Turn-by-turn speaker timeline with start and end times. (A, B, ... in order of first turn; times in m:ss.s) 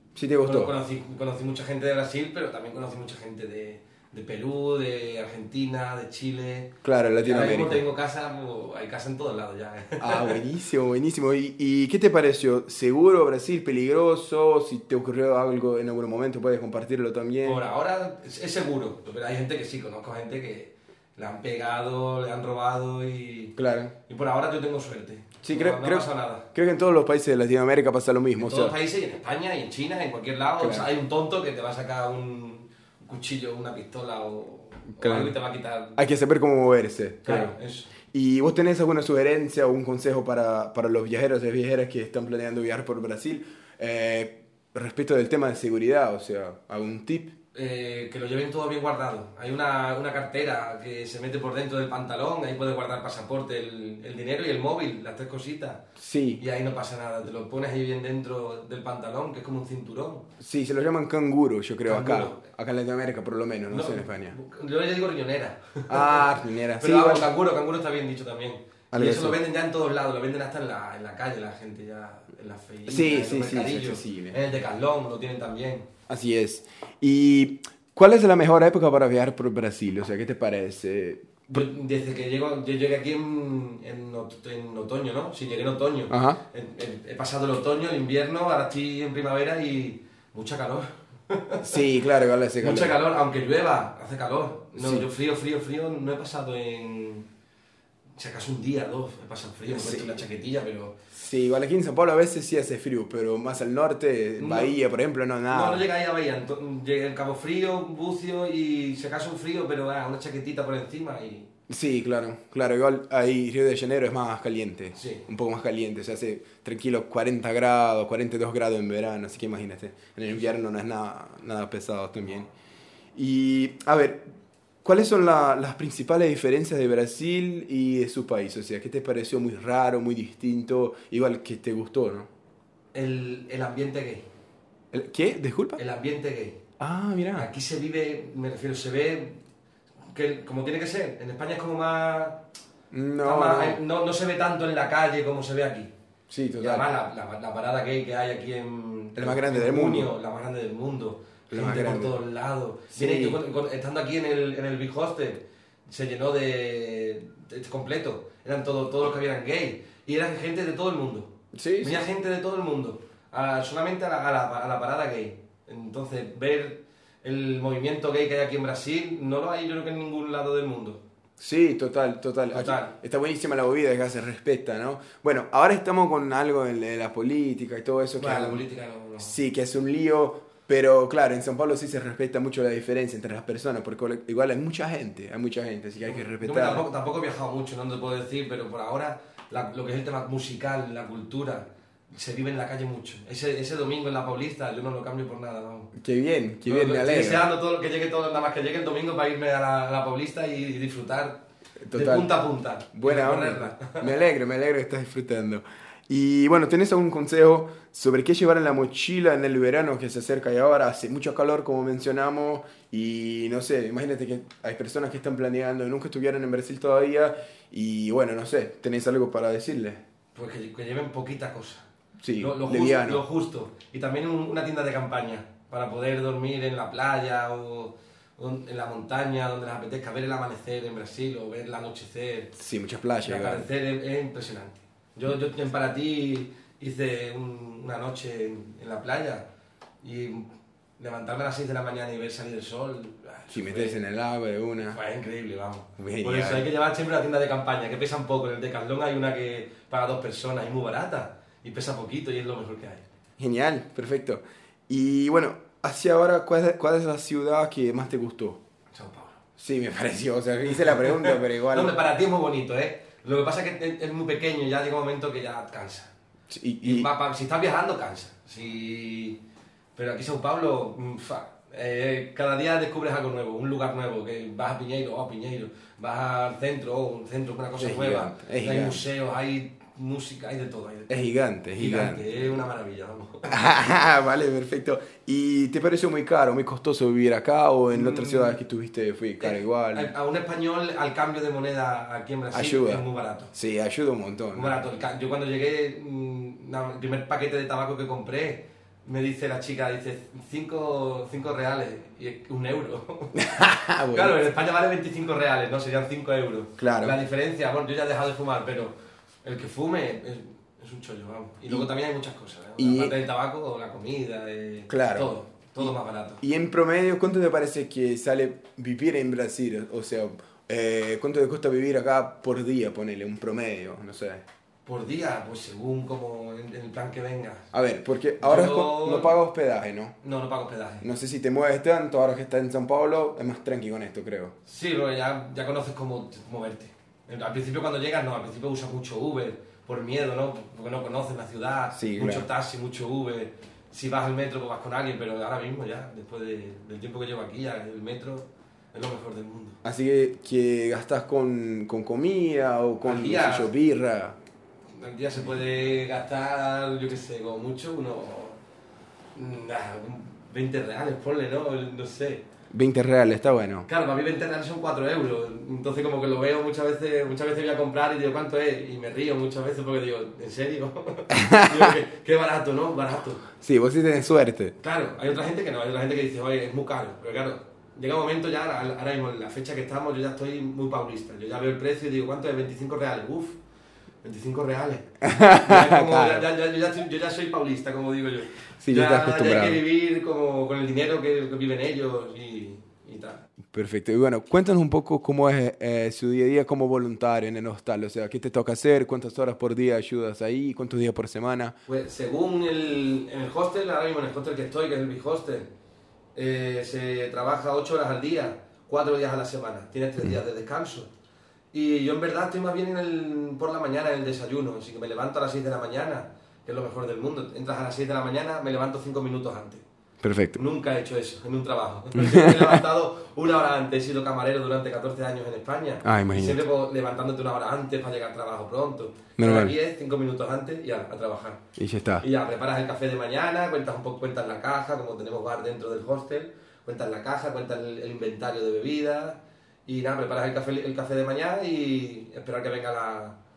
0:00.2-0:00.7 A
0:00.4-0:10.4 B
0:06.8-0:07.8 A
0:10.0-0:17.6 A
0:17.4-0:23.6 B
0:23.6-0:23.9 A
0:24.1-0:26.5 B
0:25.4-0:28.8 A
0:28.4-0:36.1 B
0:30.6-0:30.9 A
0:35.0-0:35.4 A
0:36.0-0:37.6 A
0:37.2-0:37.9 B
0:38.1-0:47.3 A
0:47.5-0:55.8 B
0:56.0-0:56.4 A
0:56.4-1:00.3 B
1:00.4-1:04.4 A
1:01.9-1:02.4 B
1:03.7-1:15.9 B
1:05.9-1:07.3 A
1:08.9-1:09.4 A
1:12.9-1:14.4 A
1:16.1-1:21.7 A
1:21.5-1:31.6 B
1:26.1-1:26.4 A
1:31.6-1:33.0 A
1:32.6-1:37.3 B
1:34.7-1:35.1 A
1:38.2-1:41.0 B
1:39.7-1:40.2 A
1:41.1-1:45.8 A
1:44.4-1:44.8 B
1:45.5-1:51.5 B
1:51.7-2:02.5 A
1:55.0-1:55.2 B
2:03.2-2:04.2 A
2:04.8-2:12.3 A
2:12.9-2:14.3 B
2:14.9-2:15.8 A
2:15.8-2:16.6 B
2:16.8-2:17.5 A
2:17.4-2:19.4 B
2:20.1-2:22.4 B
2:22.9-2:23.8 A
2:23.2-2:25.9 B
2:26.3-2:26.9 A
2:26.6-2:51.0 B
2:29.2-2:30.1 A
2:31.5-2:32.2 A
2:32.9-2:33.4 A
2:41.6-2:42.0 A
2:51.4-2:58.6 A
2:52.5-2:53.0 B
2:58.2-2:59.4 B
2:59.2-3:06.8 A
3:06.0-3:15.9 B
3:16.0-3:17.5 A
3:16.7-3:24.2 B
3:21.8-3:22.3 A
3:22.9-3:40.0 A
3:40.4-3:41.8 B
3:42.2-3:43.2 A
3:42.4-3:52.5 B
3:52.6-3:53.7 A
3:53.2-3:59.5 B
4:00.0-4:04.0 B
4:03.5-4:05.0 A
4:04.9-4:13.0 B
4:06.0-4:06.7 A
4:13.4-4:18.6 A
4:18.9-4:19.4 B
4:19.6-4:22.0 A
4:20.7-4:26.1 B
4:26.5-4:27.1 A
4:26.8-4:29.4 B
4:30.0-4:41.2 B
4:37.8-4:39.0 A
4:41.1-4:42.4 A
4:41.8-4:43.6 B
4:43.5-4:50.1 A
4:47.9-4:48.6 B
4:49.4-4:53.5 B
4:52.5-4:54.8 A
4:54.5-5:03.4 B
5:03.3-5:04.4 A
5:04.1-5:16.4 B
5:06.8-5:07.2 A
5:12.8-5:13.2 A
5:14.9-5:24.4 A
5:24.9-5:27.7 B
5:27.7-5:30.2 A
5:28.4-5:29.4 B
5:30.2-5:31.1 B
5:31.0-5:34.5 A
5:34.6-5:49.8 B
5:41.9-5:42.5 A
5:49.8-5:54.4 A
5:53.0-5:53.7 B
5:54.9-5:58.6 B
5:59.4-6:02.4 B
6:02.7-6:03.9 A
6:03.9-6:13.5 B
6:11.3-6:11.9 A
6:13.5-6:14.8 A
6:14.8-6:23.6 B
6:24.2-6:33.5 B
6:25.2-6:26.4 A
6:28.8-6:29.8 A
6:33.7-6:41.8 A
6:41.9-6:45.7 B
6:46.4-6:51.1 B
6:51.7-6:59.8 B
7:00.2-7:00.6 A
7:00.6-7:11.6 B
7:02.2-7:02.8 A
7:06.0-7:06.6 A
7:09.4-7:09.8 A
7:11.8-7:12.3 A
7:12.2-7:23.4 B